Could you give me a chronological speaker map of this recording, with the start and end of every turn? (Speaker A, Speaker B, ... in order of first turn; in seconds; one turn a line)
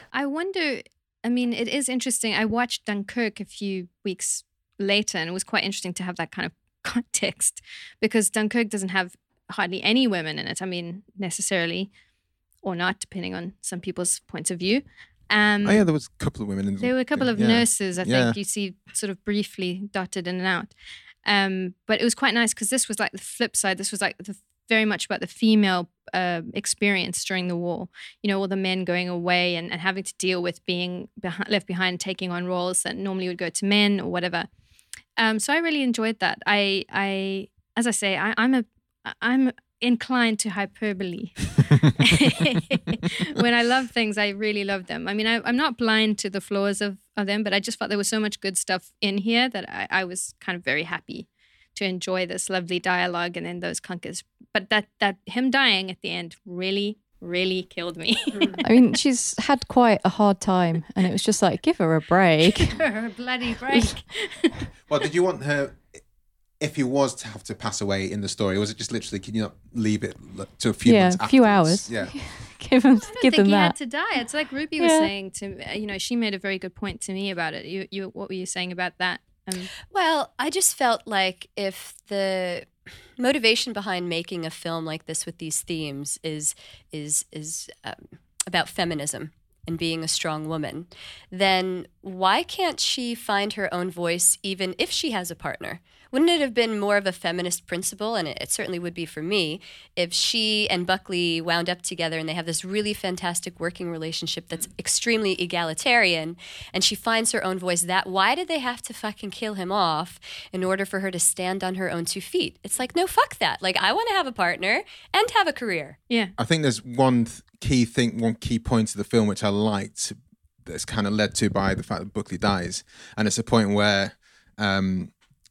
Speaker A: 0.1-11.9
Speaker A: 12.6-15.8
Speaker B: 15.6-18.4
Speaker A: 16.8-20.7
Speaker A: 21.2-34.5
Speaker A: 35.2-58.6
Speaker C: 58.6-62.8
Speaker A: 62.4-64.6
Speaker C: 63.7-64.0
Speaker B: 64.9-66.0
Speaker B: 66.6-72.1
Speaker C: 70.8-73.8
Speaker A: 73.0-79.7
Speaker C: 74.8-75.1
Speaker D: 79.9-116.0
Speaker A: 116.1-116.3
Speaker B: 116.4-125.1